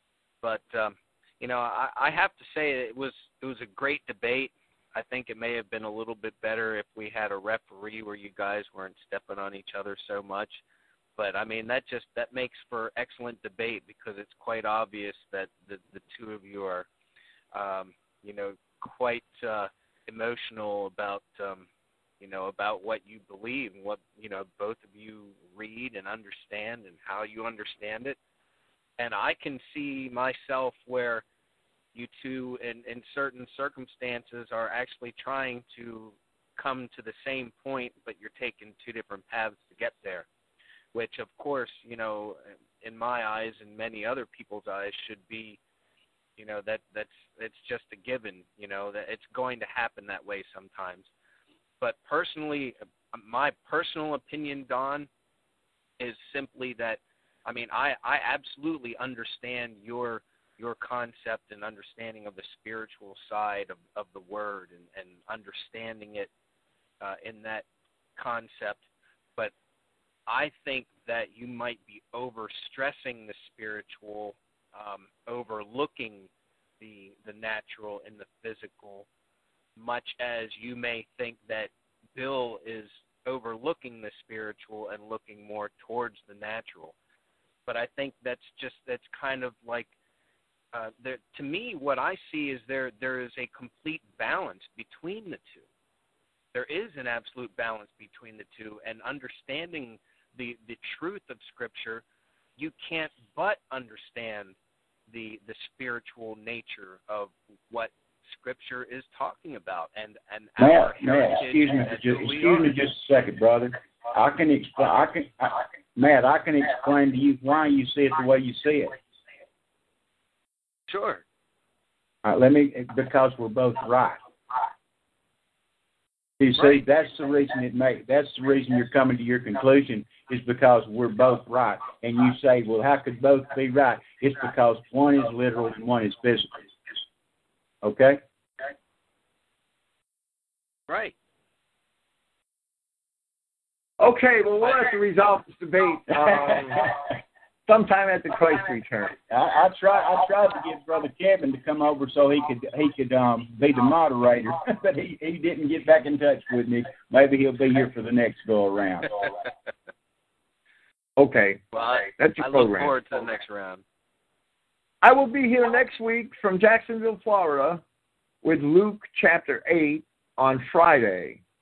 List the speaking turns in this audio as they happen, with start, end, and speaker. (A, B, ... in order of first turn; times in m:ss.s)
0:00.4-0:10.6 A
0:11.2-0:16.9 A
0:17.5-0:21.7 A
0:22.2-0:28.2 A
0:29.0-0:31.2 A
0:31.9-0:40.3 A
0:40.9-0:45.6 A
0:46.4-0:51.1 A
0:51.8-0:55.1 A
0:56.0-1:06.3 A
1:07.0-1:08.8 A
1:10.3-1:16.3 A
1:16.8-1:19.1 A
1:19.8-1:26.9 A
1:27.7-1:29.9 A
1:30.7-1:35.6 A
1:36.5-1:42.0 A
1:42.6-1:44.6 A
1:45.1-1:52.8 A
1:50.6-1:59.0 B
2:00.9-2:01.2 A
2:02.2-2:04.2 B
2:06.4-2:16.6 B
2:17.8-2:18.2 B
2:20.9-2:21.1 A
2:24.0-2:26.9 C
2:27.7-2:29.2 C
2:29.3-2:39.2 B
2:41.2-2:43.3 C
2:41.7-2:43.8 A
2:45.0-2:47.8 C
2:48.4-2:51.4 C